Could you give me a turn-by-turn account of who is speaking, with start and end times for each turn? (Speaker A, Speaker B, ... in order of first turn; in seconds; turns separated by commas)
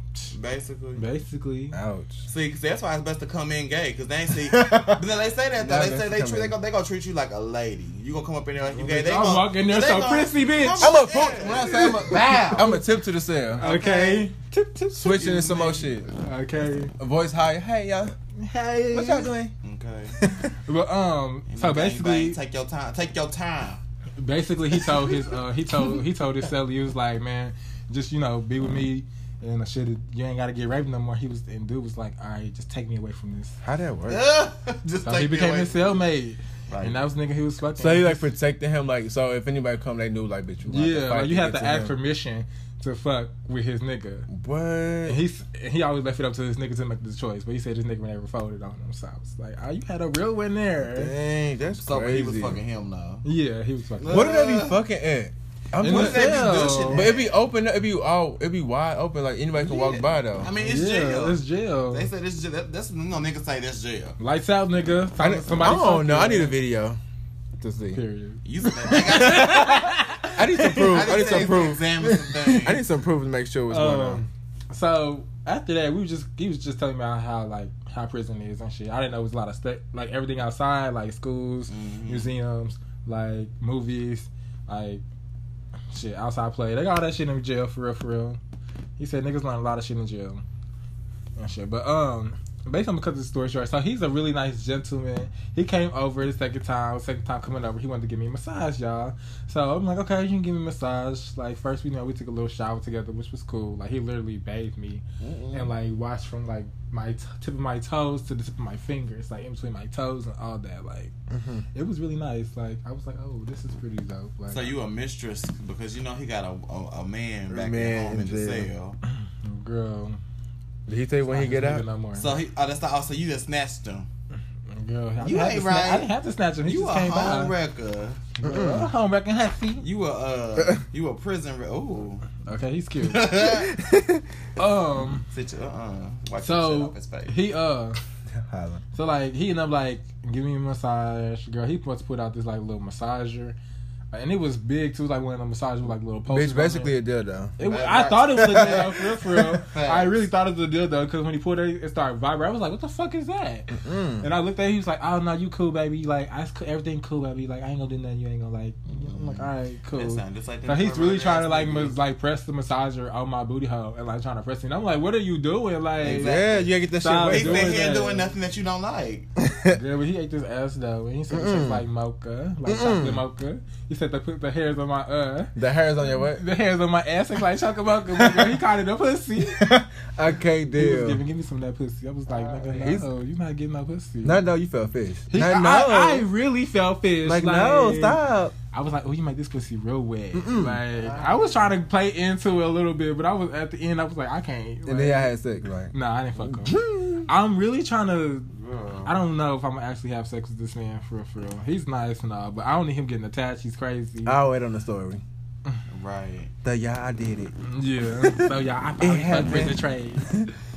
Speaker A: 0.3-1.0, Speaker B: 0.9-1.8, Speaker C: 1.7-2.3, Speaker A: 2.3-12.7, Speaker C: 4.3-5.0, Speaker C: 5.6-6.5, Speaker B: 8.7-12.8, Speaker C: 10.8-13.6, Speaker B: 13.6-15.3, Speaker A: 13.6-14.3, Speaker C: 14.9-16.1, Speaker A: 15.0-15.9, Speaker B: 16.1-16.9, Speaker C: 16.9-18.1, Speaker B: 18.4-19.3, Speaker C: 18.9-19.5, Speaker A: 19.6-20.2, Speaker C: 20.1-20.6, Speaker B: 20.6-22.4, Speaker A: 21.5-23.8, Speaker B: 24.2-33.6, Speaker A: 24.8-25.2, Speaker C: 33.6-34.2, Speaker A: 34.1-36.0, Speaker B: 35.0-38.3, Speaker A: 36.7-37.0, Speaker C: 37.8-42.0, Speaker B: 40.7-44.3, Speaker C: 44.3-45.2, Speaker B: 45.1-51.1, Speaker C: 50.9-52.6, Speaker A: 51.8-53.2, Speaker B: 53.2-54.3, Speaker A: 54.0-54.8, Speaker C: 54.1-60.5, Speaker B: 55.8-57.1, Speaker A: 55.8-57.3, Speaker A: 59.5-64.2, Speaker B: 60.6-62.1, Speaker B: 64.2-66.5, Speaker C: 65.2-67.0, Speaker C: 67.6-68.0, Speaker B: 67.9-71.2, Speaker A: 68.4-70.0, Speaker C: 68.6-74.2, Speaker A: 70.7-72.8, Speaker B: 73.7-85.0, Speaker A: 81.7-82.3, Speaker B: 85.9-88.4, Speaker B: 89.0-90.4, Speaker B: 91.4-111.1, Speaker A: 105.2-105.7, Speaker C: 111.3-111.7, Speaker B: 111.7-114.8, Speaker A: 114.5-119.0, Speaker C: 117.5-118.7, Speaker B: 119.0-120.2, Speaker C: 120.9-121.8, Speaker B: 121.2-122.3, Speaker A: 122.2-124.1, Speaker B: 124.7-127.5, Speaker A: 125.2-126.1, Speaker A: 126.6-128.3, Speaker B: 128.3-129.8, Speaker C: 128.4-128.9, Speaker A: 129.8-132.3, Speaker B: 132.4-133.3, Speaker A: 133.0-133.7, Speaker C: 133.4-134.2, Speaker B: 134.6-135.2, Speaker A: 135.3-137.3, Speaker B: 136.4-138.0, Speaker C: 138.3-138.8, Speaker B: 138.9-143.6, Speaker B: 144.1-146.9, Speaker C: 146.3-147.6, Speaker B: 147.6-166.4, Speaker A: 147.6-150.3, Speaker C: 148.3-149.4, Speaker C: 153.7-154.3, Speaker C: 159.0-159.5, Speaker A: 159.9-162.0, Speaker A: 166.0-166.7, Speaker C: 166.1-167.9, Speaker B: 167.0-168.3, Speaker A: 167.3-169.3, Speaker C: 169.4-169.8, Speaker B: 169.7-175.6, Speaker C: 171.3-171.8, Speaker C: 172.7-173.2, Speaker C: 175.6-176.4, Speaker B: 176.1-179.7, Speaker C: 178.2-178.6, Speaker C: 179.5-181.2, Speaker B: 180.8-184.4, Speaker C: 182.4-183.1, Speaker C: 184.2-186.2, Speaker B: 185.3-188.2, Speaker C: 187.2-188.5, Speaker B: 188.7-195.3, Speaker C: 190.3-190.8, Speaker A: 190.9-191.7, Speaker C: 194.8-197.3, Speaker B: 195.9-198.5, Speaker A: 198.5-199.1, Speaker B: 199.0-204.4, Speaker C: 204.2-205.2, Speaker A: 205.9-206.5, Speaker C: 206.6-207.5, Speaker B: 207.6-210.4, Speaker C: 208.2-210.5